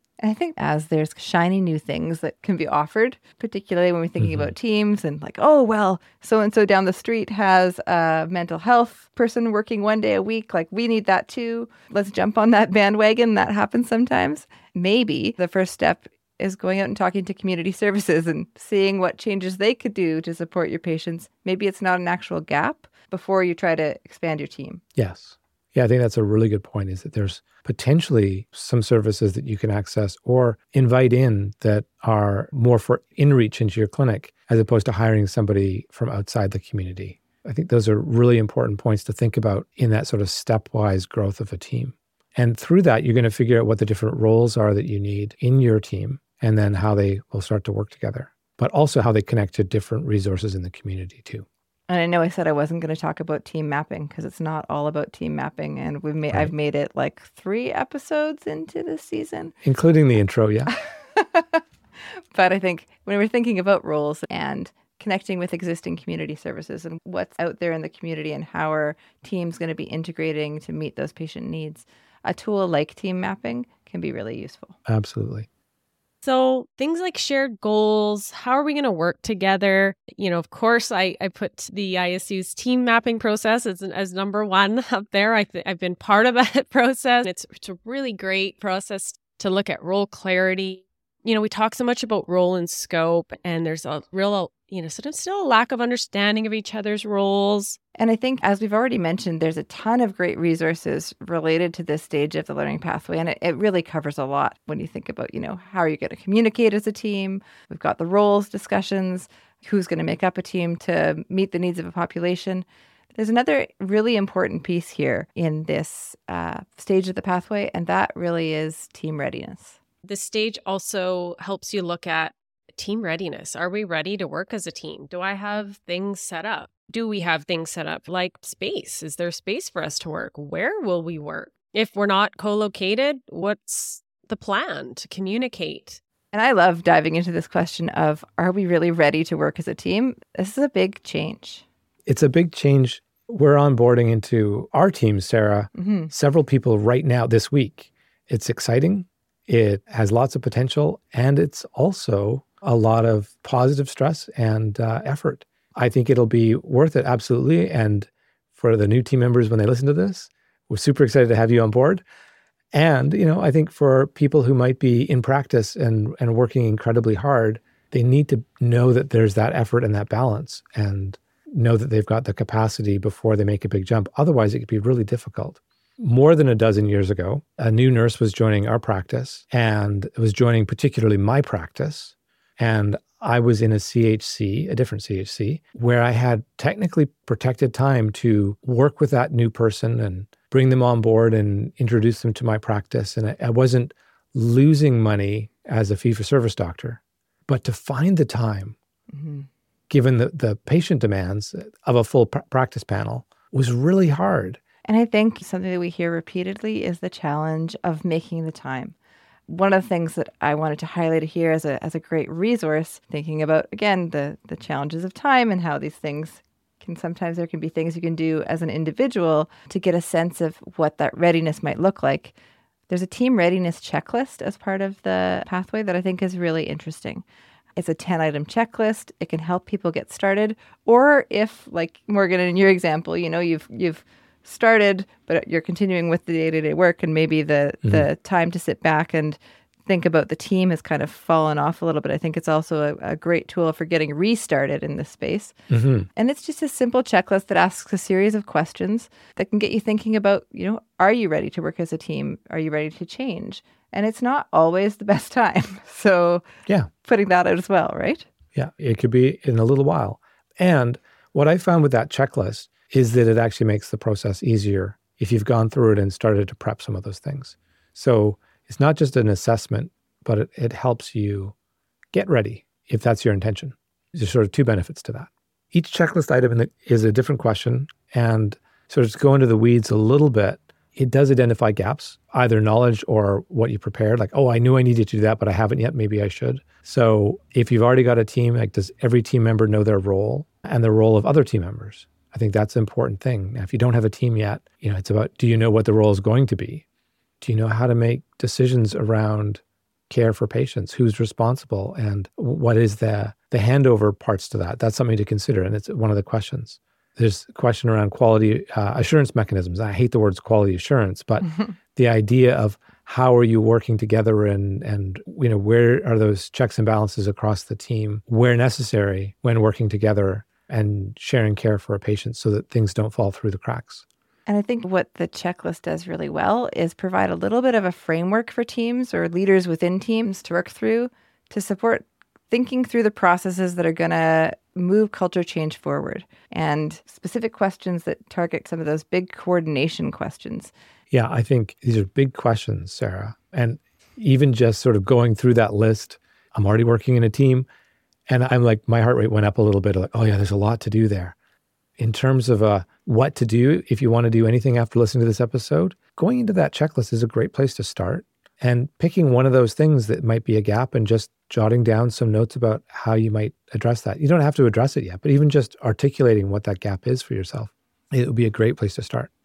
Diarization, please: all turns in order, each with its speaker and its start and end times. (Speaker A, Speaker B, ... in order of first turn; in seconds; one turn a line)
Speaker A: 0.2-24.8
Speaker B: 4.2-4.5
Speaker B: 24.9-51.5
Speaker A: 51.9-59.5
Speaker B: 59.6-60.7
Speaker A: 61.1-61.6
Speaker A: 62.3-74.8
Speaker B: 74.9-75.5
Speaker C: 76.2-97.8
Speaker A: 98.0-119.8
Speaker C: 120.0-136.0
Speaker A: 136.3-141.6
Speaker B: 142.1-162.0
Speaker A: 145.8-146.1
Speaker B: 162.7-198.8
Speaker A: 199.1-199.5
Speaker B: 199.9-204.6
Speaker A: 204.8-208.9
Speaker A: 209.5-222.3
Speaker A: 222.9-227.2
Speaker A: 227.8-245.5
Speaker B: 245.7-246.1
Speaker A: 246.1-256.4
Speaker A: 257.0-258.3
Speaker B: 258.5-271.5
Speaker B: 272.1-296.8
Speaker B: 297.4-324.0
Speaker A: 324.5-340.7
Speaker B: 341.1-347.7
Speaker B: 348.3-351.4
Speaker B: 352.0-369.3